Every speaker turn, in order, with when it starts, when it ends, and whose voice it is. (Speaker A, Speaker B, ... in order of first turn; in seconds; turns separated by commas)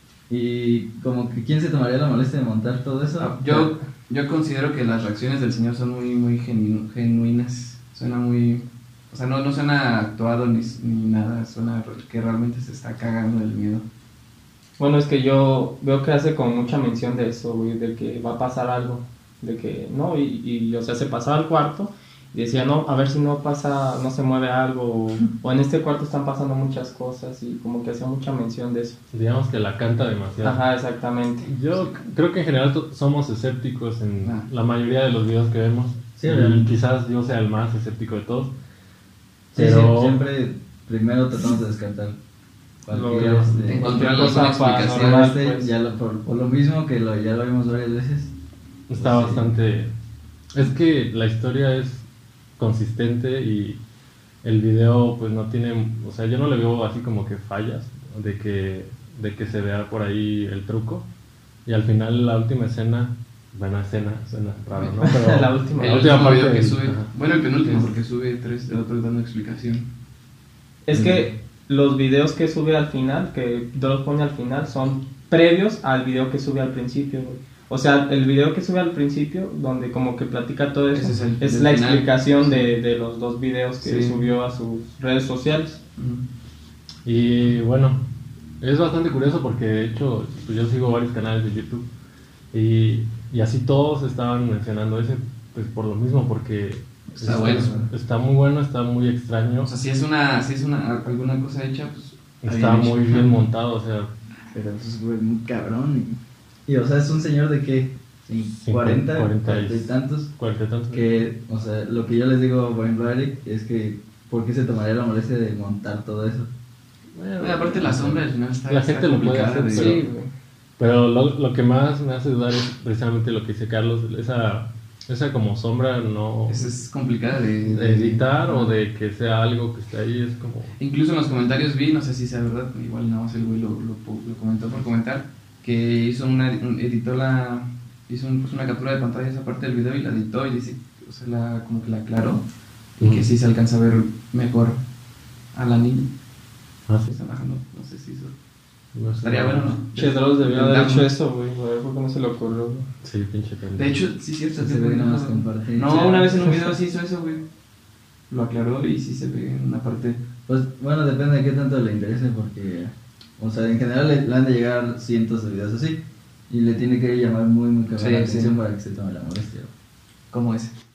Speaker A: 0.3-3.7, Speaker B: 3.2-13.9, Speaker C: 14.8-29.0, Speaker D: 29.1-30.6, Speaker C: 30.4-31.5, Speaker D: 31.4-38.5, Speaker B: 34.2-34.5, Speaker A: 36.2-36.7, Speaker D: 39.5-40.2, Speaker A: 39.5-42.2, Speaker A: 42.9-48.3, Speaker C: 42.9-45.7, Speaker D: 43.1-43.5, Speaker B: 43.7-45.3, Speaker D: 48.9-49.9, Speaker A: 48.9-49.5, Speaker D: 50.5-52.0, Speaker D: 52.6-53.8, Speaker D: 54.4-61.1, Speaker D: 61.7-67.1, Speaker C: 64.8-66.1, Speaker B: 65.8-69.9, Speaker C: 70.9-85.8, Speaker A: 70.9-71.4, Speaker B: 80.9-82.7, Speaker B: 83.8-84.3, Speaker B: 86.0-86.3, Speaker D: 87.0-88.1, Speaker D: 88.6-91.9, Speaker D: 92.5-99.7, Speaker B: 97.2-97.8, Speaker A: 97.2-97.9, Speaker B: 99.7-103.4, Speaker D: 102.4-104.1, Speaker A: 104.5-110.3, Speaker D: 108.6-111.1, Speaker A: 110.9-116.5, Speaker D: 117.2-118.1, Speaker B: 117.4-120.0, Speaker A: 117.9-118.2, Speaker D: 118.7-120.1, Speaker C: 119.7-120.3, Speaker D: 120.8-126.6, Speaker B: 126.5-128.8, Speaker D: 127.8-130.7, Speaker B: 130.8-142.5, Speaker D: 143.0-143.3, Speaker B: 143.0-144.8, Speaker B: 145.5-146.1, Speaker D: 146.9-147.2, Speaker B: 147.1-148.3, Speaker D: 148.9-149.8, Speaker B: 149.2-151.1, Speaker C: 149.9-152.9, Speaker D: 153.0-154.0, Speaker B: 153.8-157.4, Speaker A: 154.6-156.4, Speaker C: 155.9-156.8, Speaker B: 158.3-160.2, Speaker A: 160.5-169.7, Speaker B: 168.0-168.6, Speaker B: 170.3-170.7